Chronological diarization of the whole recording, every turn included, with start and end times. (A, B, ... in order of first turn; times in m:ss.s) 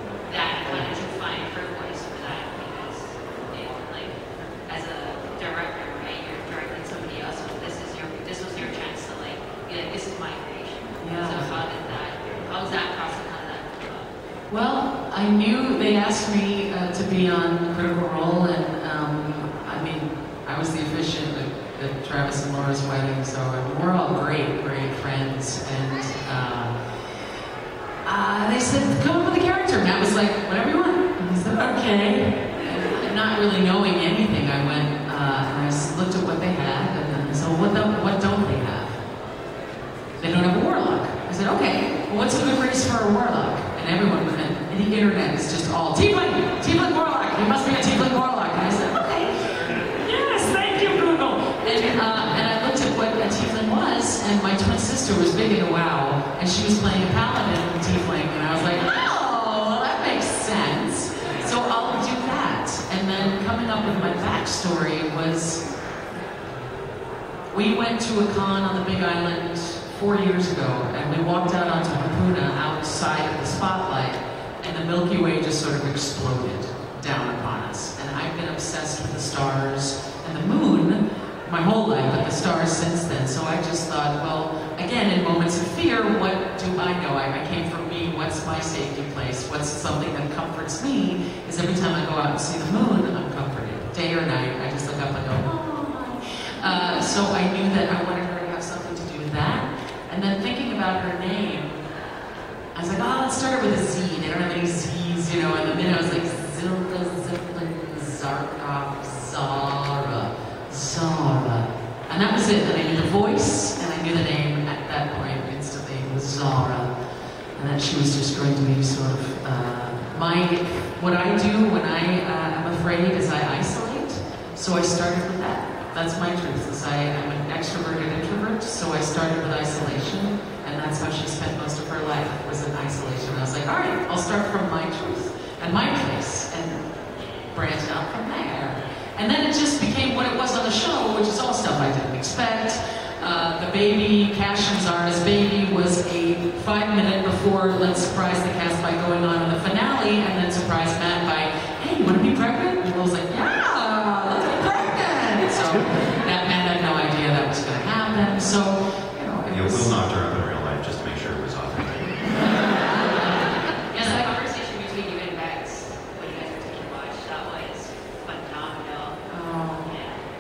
0:00.3-0:14.1 A
0:11.0-0:11.6 B
0:14.5-0:26.9 B
0:28.0-0:39.0 B
0:40.2-1:05.6 B
1:07.5-1:41.8 B
1:42.8-2:16.9 B
2:17.5-2:40.0 B
2:39.5-2:42.2 C
2:42.6-2:43.4 B
2:43.9-2:49.2 A
2:43.9-2:44.3 B
2:49.3-2:50.0 B
2:49.8-2:50.2 A